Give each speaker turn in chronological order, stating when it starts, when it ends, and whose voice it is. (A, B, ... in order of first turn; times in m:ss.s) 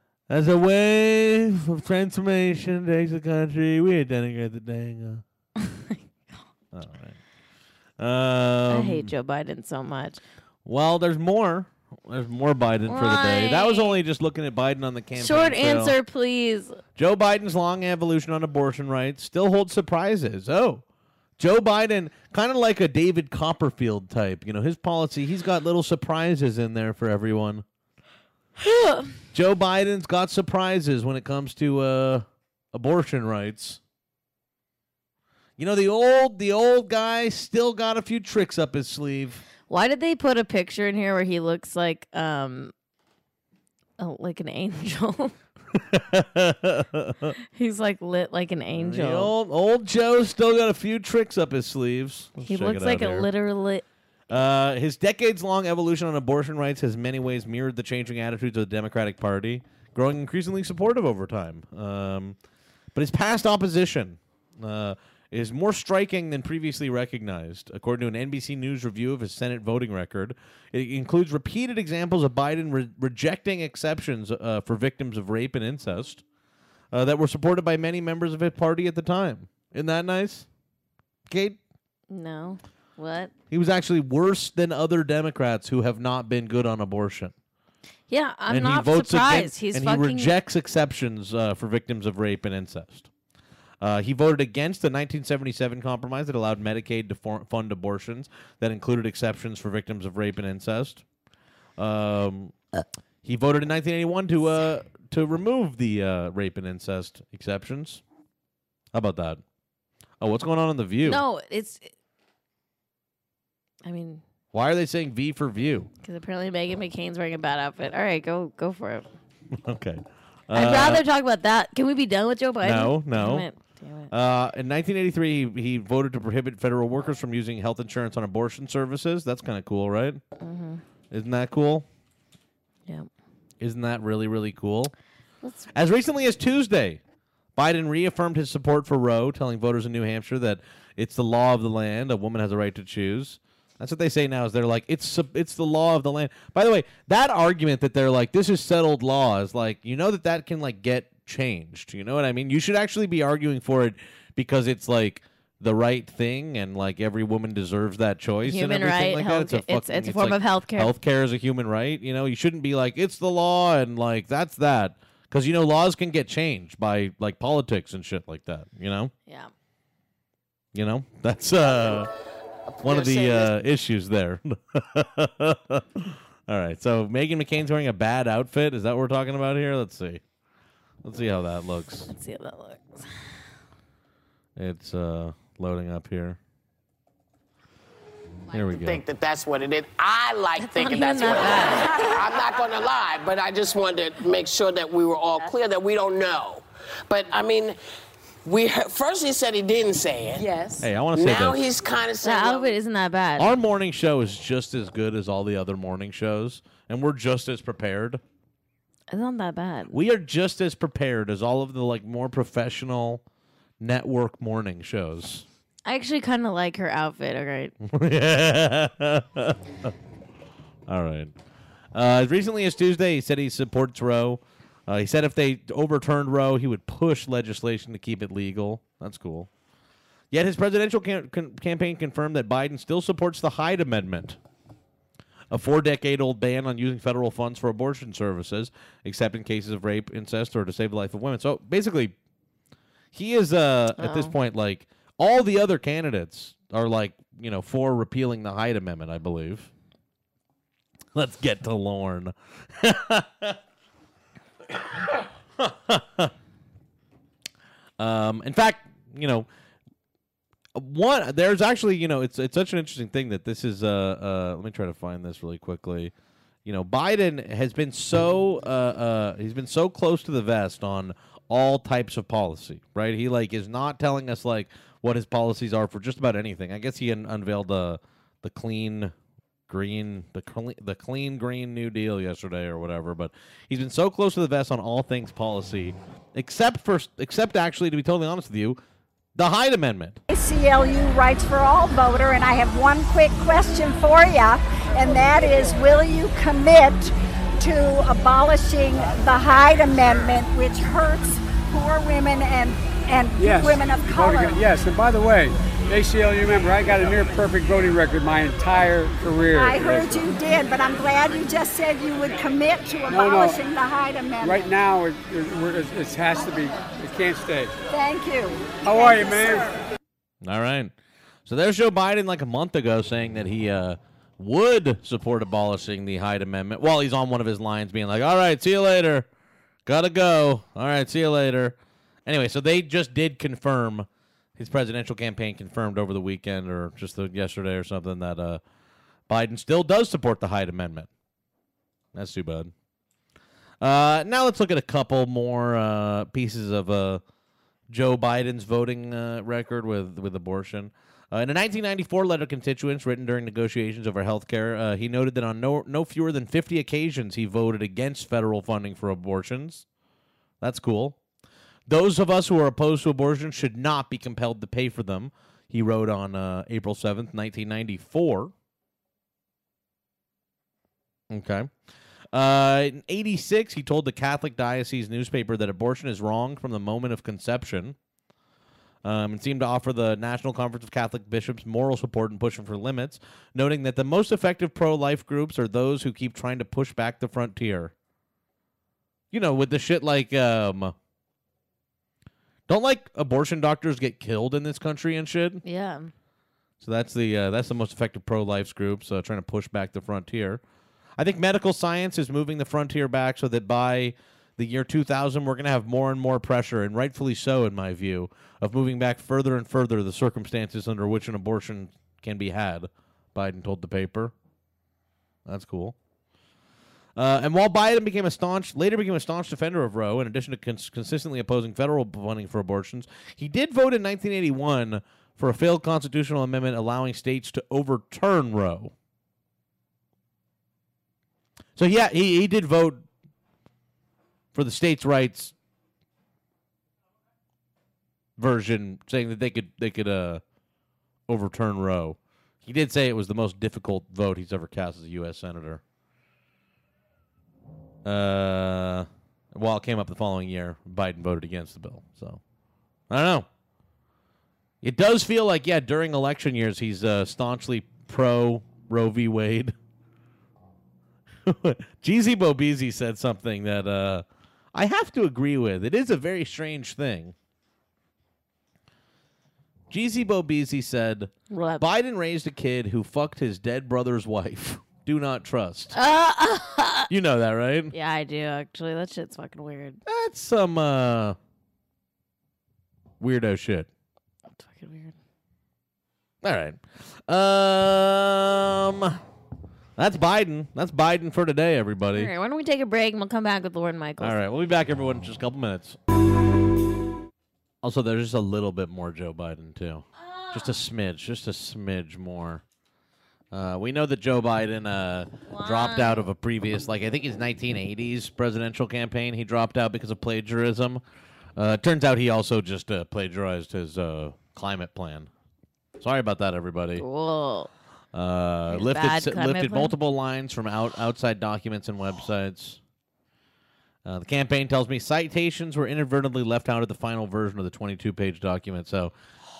0:00.3-0:05.2 A
0:05.6-0:06.0 B
0:06.7-0:07.2 A
0:08.0-0:09.1 A
0:08.7-0:10.2 B
0:10.6-0:16.0 A
0:12.9-0:14.0 B
0:15.2-0:16.8 B
0:17.0-0:20.8 A
0:21.4-0:27.6 A
0:28.6-0:29.1 B
0:29.3-0:33.8 A
0:35.6-0:39.4 A
0:39.7-0:42.7 B
0:44.0-0:45.3 B
0:45.8-0:47.4 A
0:47.6-0:49.3 B
0:48.8-0:53.3 A
0:52.4-0:53.8 B
0:54.3-1:02.4 A
1:03.0-1:16.2 A
1:16.9-1:20.5 A
1:21.3-1:21.6 A
1:22.1-1:23.3 B
1:23.5-1:27.3 A
1:28.1-1:30.3 B
1:28.5-1:33.1 A
1:33.8-1:41.0 A
1:41.8-1:42.6 A
1:43.2-1:48.0 A
1:48.9-1:49.4 A
1:50.2-1:51.2 A
1:51.0-1:51.9 B
1:53.8-1:54.2 B
1:54.5-1:55.9 A
1:56.0-1:59.1 B
1:59.5-2:01.0 A
2:00.5-2:04.1 B
2:02.6-2:03.5 A
2:04.1-2:10.2 A
2:10.4-2:10.8 B
2:11.1-2:11.9 A
2:13.6-2:14.9 A
2:15.4-2:15.7 B
2:15.7-2:17.0 A
2:17.6-2:49.1 A
2:38.4-2:40.9 B
2:50.7-2:52.1 A
2:52.8-2:53.5 C
2:52.8-3:00.2 A
3:01.0-3:02.1 A
3:02.1-3:03.1 B
3:04.6-3:06.4 A
3:08.5-3:09.0 A
3:08.6-3:17.8 C
3:10.6-3:12.0 B
3:18.4-3:20.5 C
3:20.5-3:20.7 B
3:20.8-3:21.6 A
3:21.1-3:22.8 C
3:22.2-3:23.5 B
3:23.4-3:28.2 A
3:29.1-3:30.0 B
3:29.9-3:33.2 A
3:33.8-3:35.4 A
3:35.9-3:37.7 B
3:37.8-3:39.9 A
3:40.9-3:41.3 A
3:41.9-3:49.5 A
3:50.3-3:54.4 A
3:55.5-4:02.2 A
4:03.1-4:09.7 A
4:04.0-4:04.3 B
4:11.2-4:13.6 A
4:15.6-4:16.3 A
4:18.0-4:19.5 A
4:20.8-4:26.1 A
4:26.6-4:39.1 A
4:39.7-4:48.8 A
4:49.4-4:50.2 A
4:50.3-5:04.6 D
5:03.4-5:10.3 E
5:09.5-5:14.7 D
5:13.1-5:13.6 E
5:14.4-5:17.7 E
5:17.9-5:19.7 D
5:18.8-5:19.7 E
5:20.4-5:20.9 A
5:21.5-5:29.3 A
5:29.9-5:38.6 A
5:39.3-5:41.1 A
5:42.1-5:42.7 A
5:43.8-5:47.2 A
5:47.9-5:59.9 A
6:00.6-6:01.2 A
6:01.9-6:08.5 A
6:11.3-6:11.7 A
6:12.3-6:18.0 A
6:19.0-6:27.9 A
6:29.3-6:30.9 A
6:32.7-6:35.6 A
6:35.6-6:36.1 B
6:36.8-6:40.6 A
6:41.2-6:54.3 A
6:55.5-6:56.0 A
6:57.2-7:08.9 A
7:11.8-7:13.1 A
7:14.5-7:15.6 A
7:18.4-7:20.4 A
7:21.3-7:25.8 A
7:28.0-7:32.4 A
7:33.1-7:33.5 A
7:34.8-7:39.7 A
7:41.5-7:47.3 A
7:49.9-7:56.0 A
7:51.5-7:51.8 B
7:55.9-7:57.1 B
7:57.1-7:58.0 A
7:57.9-8:00.0 B
8:00.0-8:01.4 A
8:03.2-8:03.9 A
8:04.5-8:05.2 B
8:06.4-8:09.2 A
8:10.0-8:12.3 A
8:12.1-8:14.4 B
8:14.2-8:16.0 A
8:17.8-8:22.6 A
8:20.2-8:20.6 B
8:23.5-8:31.0 A
8:25.5-8:26.3 B
8:31.6-8:35.3 A
8:36.0-8:37.0 A
8:37.0-8:37.7 B
8:38.1-8:42.8 A
8:38.7-8:40.0 B
8:44.0-8:49.1 A